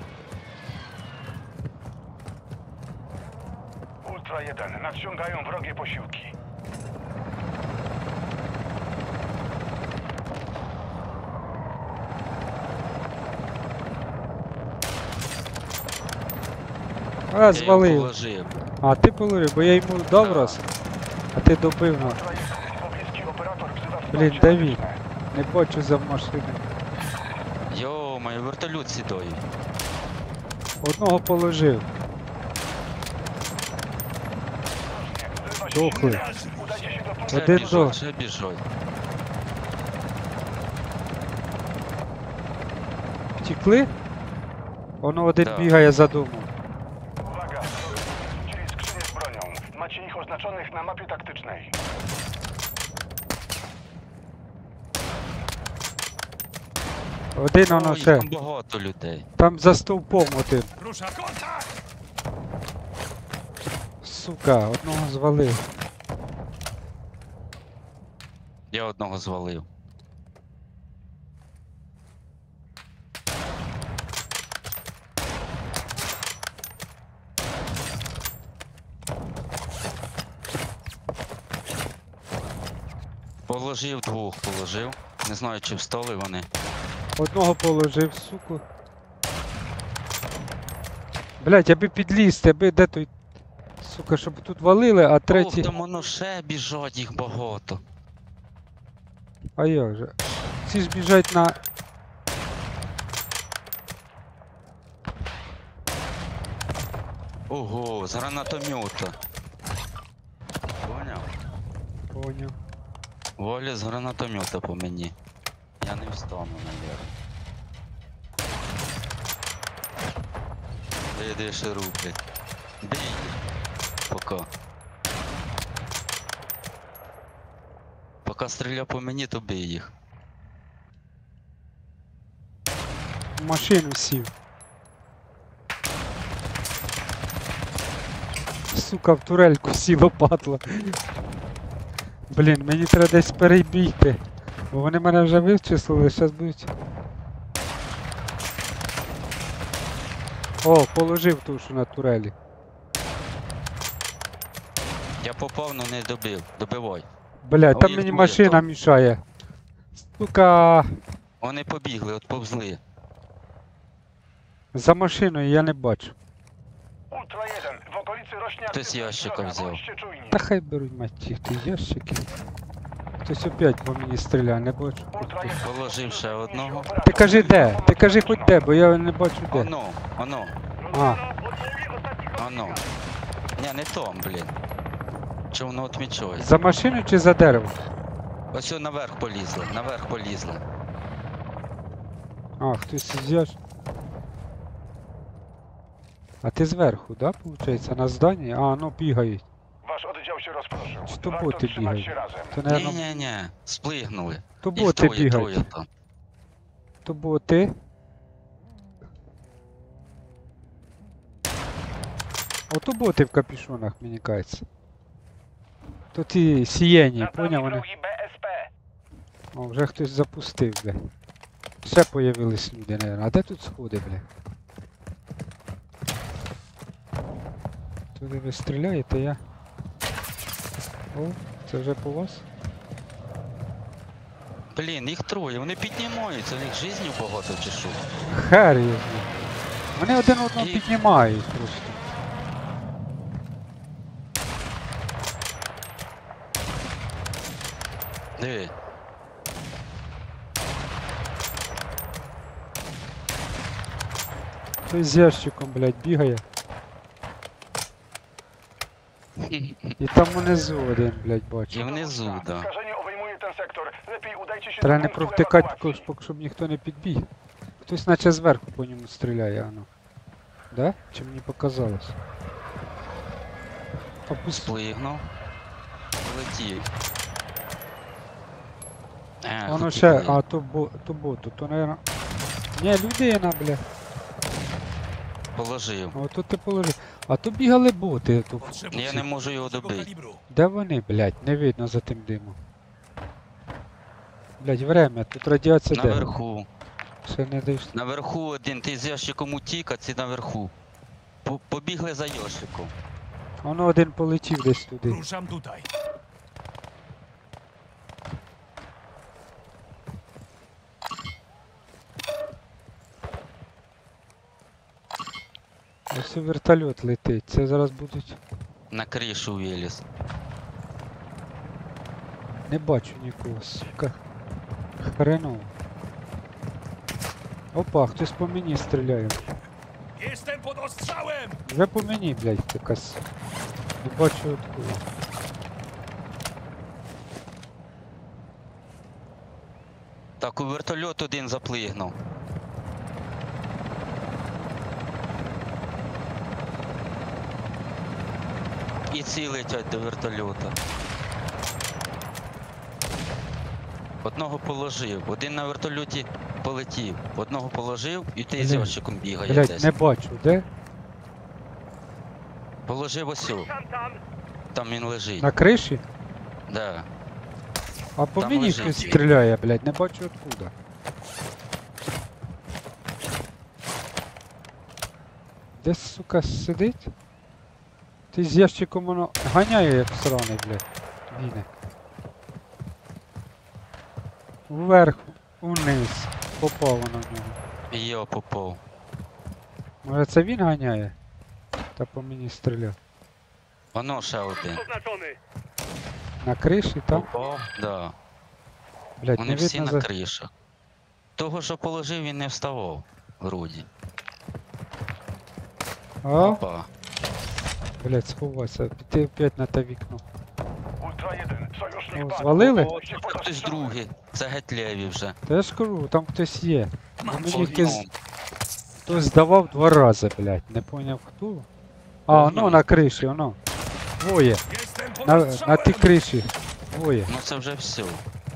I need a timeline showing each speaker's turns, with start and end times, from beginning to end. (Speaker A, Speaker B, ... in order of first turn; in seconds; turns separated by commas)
Speaker A: 4.0-6.3, Speaker B: 17.3-18.1, Speaker C: 17.5-18.6, Speaker B: 18.8-20.6, Speaker C: 20.2-20.6, Speaker B: 21.3-22.2, Speaker A: 22.0-25.0, Speaker B: 24.1-26.6, Speaker C: 27.7-29.5, Speaker B: 30.8-31.9, Speaker A: 34.9-37.9, Speaker B: 35.7-36.2, Speaker D: 35.9-37.0, Speaker B: 37.3-38.0, Speaker C: 37.3-38.6, Speaker B: 43.4-43.9, Speaker B: 45.0-46.5, Speaker C: 45.4-45.8, Speaker A: 47.2-51.7, Speaker B: 57.4-58.3, Speaker C: 57.7-59.3, Speaker B: 59.4-60.7, Speaker D: 60.8-61.7, Speaker B: 64.0-65.7, Speaker C: 68.7-69.7, Speaker C: 83.5-86.5, Speaker B: 87.2-88.6, Speaker B: 91.4-93.1, Speaker B: 93.8-95.7, Speaker C: 95.3-97.8, Speaker B: 99.6-101.6, Speaker C: 107.5-109.2, Speaker C: 110.8-111.3, Speaker B: 112.1-112.5, Speaker C: 113.4-115.1, Speaker C: 115.8-117.1, Speaker C: 121.1-122.2, Speaker C: 122.8-123.4, Speaker C: 124.1-124.5, Speaker C: 128.2-129.9, Speaker B: 133.4-134.3, Speaker B: 138.7-141.0, Speaker B: 142.3-146.7, Speaker B: 150.6-152.3, Speaker C: 155.2-157.1, Speaker B: 157.4-159.2, Speaker C: 157.7-158.7, Speaker B: 160.0-160.9, Speaker C: 161.4-162.8, Speaker B: 164.7-166.2, Speaker A: 167.1-170.4, Speaker C: 168.7-169.8, Speaker B: 170.3-172.3, Speaker B: 173.2-175.6, Speaker A: 175.1-178.6, Speaker C: 175.6-176.9, Speaker B: 177.0-179.7, Speaker C: 179.5-180.6, Speaker B: 180.9-181.2, Speaker C: 182.3-182.8, Speaker C: 183.6-184.6, Speaker C: 185.5-186.5, Speaker B: 186.4-187.8, Speaker C: 188.5-190.6, Speaker B: 192.6-193.6, Speaker B: 196.4-199.4, Speaker A: 199.8-202.8, Speaker B: 201.1-203.0, Speaker C: 202.7-205.9, Speaker B: 204.6-205.7, Speaker B: 207.1-207.7, Speaker B: 212.7-214.7, Speaker B: 216.1-217.8, Speaker A: 217.2-218.7, Speaker B: 219.5-221.0, Speaker B: 221.8-224.3, Speaker B: 228.2-229.4, Speaker B: 231.1-232.4, Speaker C: 234.7-238.0, Speaker B: 238.3-239.3, Speaker B: 240.0-242.0, Speaker C: 240.6-240.9, Speaker C: 248.4-248.7, Speaker B: 254.8-256.4, Speaker C: 259.4-260.0, Speaker B: 260.0-261.9, Speaker C: 261.7-262.7, Speaker A: 261.8-266.1, Speaker B: 264.8-267.3, Speaker B: 267.8-269.9, Speaker B: 270.7-272.2, Speaker B: 274.3-274.7, Speaker C: 274.5-275.3, Speaker C: 276.2-276.9, Speaker C: 279.4-280.4, Speaker B: 279.7-282.0, Speaker B: 282.8-283.8, Speaker C: 285.6-286.1, Speaker B: 286.1-289.2, Speaker D: 288.6-290.4, Speaker C: 288.9-290.1, Speaker B: 290.5-292.6, Speaker B: 294.6-296.3, Speaker C: 295.9-296.7, Speaker B: 297.2-297.9, Speaker C: 297.9-300.7, Speaker C: 301.4-302.9, Speaker B: 303.6-305.2, Speaker D: 305.0-305.9, Speaker B: 316.1-318.4, Speaker C: 318.9-320.0, Speaker B: 322.7-324.2, Speaker B: 325.0-325.7, Speaker B: 327.7-329.5, Speaker D: 330.2-331.6, Speaker B: 331.7-333.2, Speaker B: 334.0-335.0, Speaker C: 340.4-342.2, Speaker C: 349.1-350.8, Speaker C: 354.2-359.9, Speaker B: 358.6-360.6, Speaker C: 362.9-363.7, Speaker C: 364.7-365.5, Speaker B: 365.4-366.0, Speaker C: 366.7-367.1, Speaker B: 368.2-370.7, Speaker C: 368.4-369.2, Speaker B: 375.8-377.1, Speaker B: 378.3-381.7, Speaker B: 384.7-387.6, Speaker C: 387.9-388.8, Speaker B: 390.0-391.2, Speaker B: 392.0-393.0, Speaker C: 393.9-394.9, Speaker B: 396.4-397.3, Speaker C: 397.1-398.1, Speaker B: 399.2-400.1, Speaker C: 399.4-400.5, Speaker C: 401.4-403.9, Speaker B: 406.2-406.6, Speaker C: 406.4-406.9, Speaker B: 408.0-410.2, Speaker A: 411.0-414.0, Speaker B: 412.1-412.9, Speaker C: 412.6-415.4, Speaker B: 415.5-418.1, Speaker D: 417.2-417.9, Speaker C: 417.5-418.1, Speaker B: 419.1-421.7, Speaker B: 422.3-423.6, Speaker C: 422.3-422.9, Speaker B: 424.2-424.6, Speaker D: 424.7-426.2, Speaker B: 425.2-427.3, Speaker C: 427.3-428.2